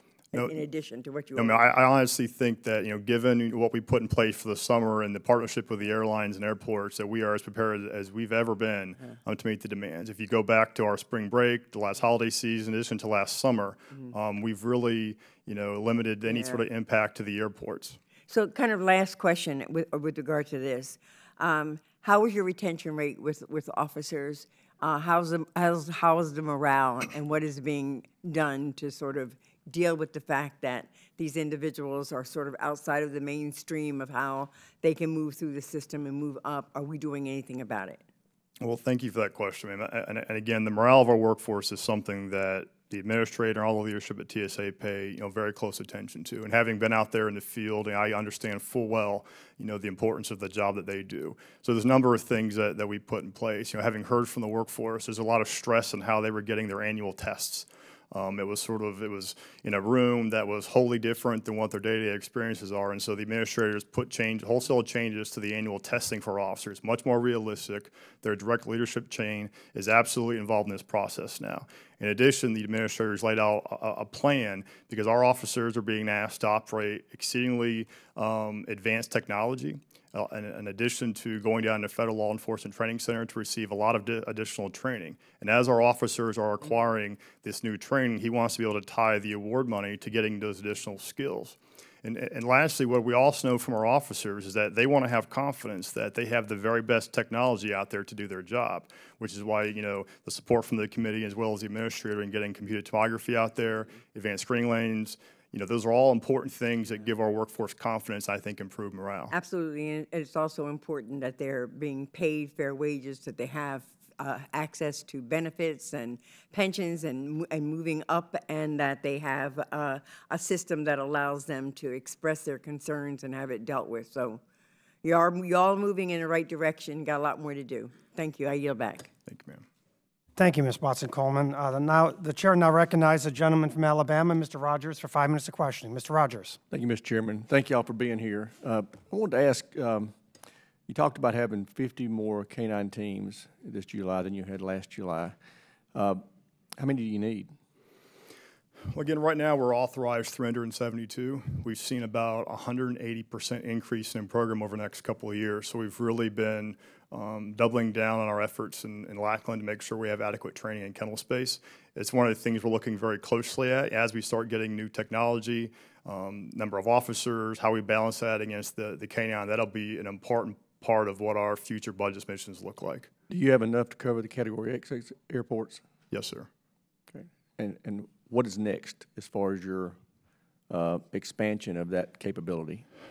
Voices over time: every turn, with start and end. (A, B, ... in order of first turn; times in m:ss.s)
0:00.3-0:01.6 A
0:01.4-0:18.0 B
0:16.3-0:16.6 A
0:18.3-0:38.0 A
0:38.6-1:49.3 B
1:49.3-2:04.4 A
2:05.0-2:09.1 A
2:09.3-2:09.6 B
2:10.4-2:16.6 C
2:16.7-2:20.2 D
2:20.9-2:25.4 D
2:25.9-2:26.2 D
2:26.8-2:27.5 D
2:28.9-2:53.1 B
2:53.3-2:55.8 D
2:56.1-2:56.5 B
2:57.1-3:00.0 D
3:00.7-3:02.8 D